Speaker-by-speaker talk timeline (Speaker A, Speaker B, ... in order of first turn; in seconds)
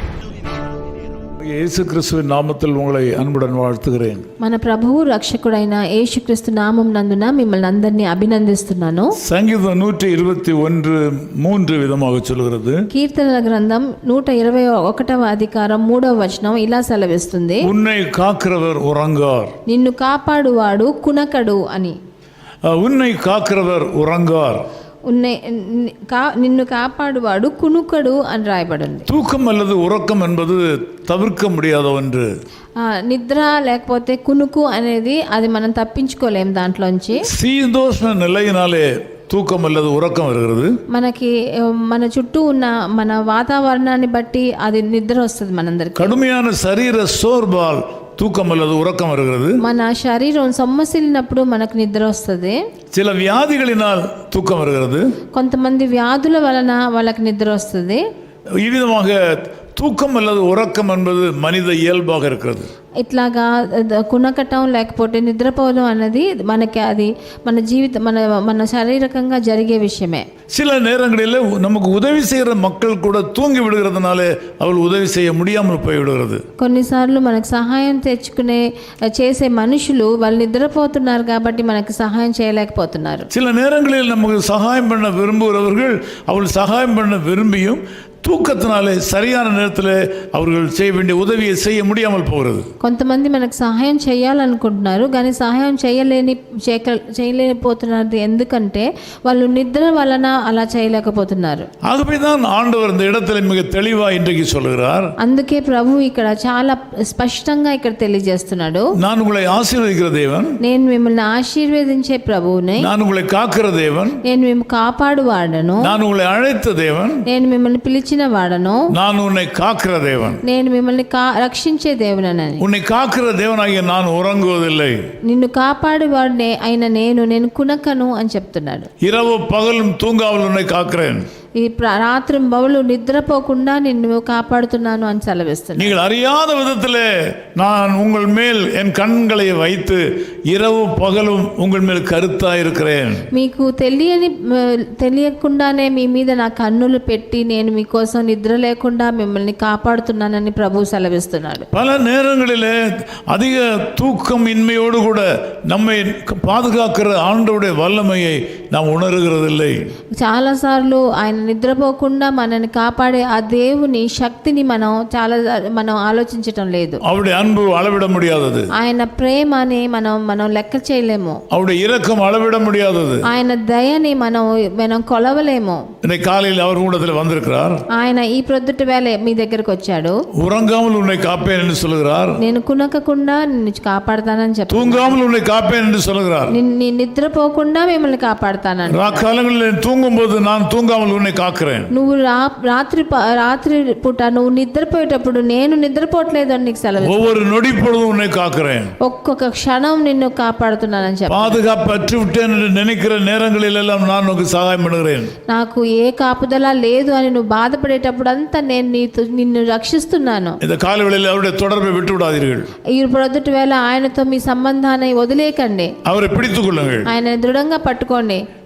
Speaker A: 1.4-4.2, 9.2-12.8, 17.6-19.5, 22.6-24.6, 29.1-32.3, 37.3-40.8, 46.0-49.6, 52.9-55.1, 58.6-62.7, 70.5-76.4, 83.3-92.7, 101.8-105.1, 109.0-110.5, 112.8-114.2, 115.8-117.2, 118.9-120.4, 122.6-125.0, 129.0-131.3, 135.8-143.2, 151.7-152.8, 153.3-159.8, 167.0-168.7, 171.5-173.2, 176.0-177.8, 180.4-182.4, 184.7-186.5, 188.9-191.9, 197.0-198.9, 201.3-205.3, 210.6-212.7, 216.0-217.1
Speaker B: 4.4-9.1, 12.9-17.7, 19.7-21.9, 25.1-29.1, 32.8-37.2, 40.9-46.1, 49.6-52.6, 55.3-58.0, 63.0-70.2, 76.6-83.3, 92.8-101.7, 105.2-108.8, 110.6-112.9, 114.2-115.9, 117.2-118.8, 120.4-122.6, 125.2-128.9, 131.6-136.0, 143.3-151.7, 160.2-167.0, 168.7-171.4, 173.2-175.8, 177.9-180.2, 182.4-185.2, 186.5-189.3, 191.9-197.4, 199.0-201.7, 205.5-210.6, 212.9-215.9, 217.0-218.4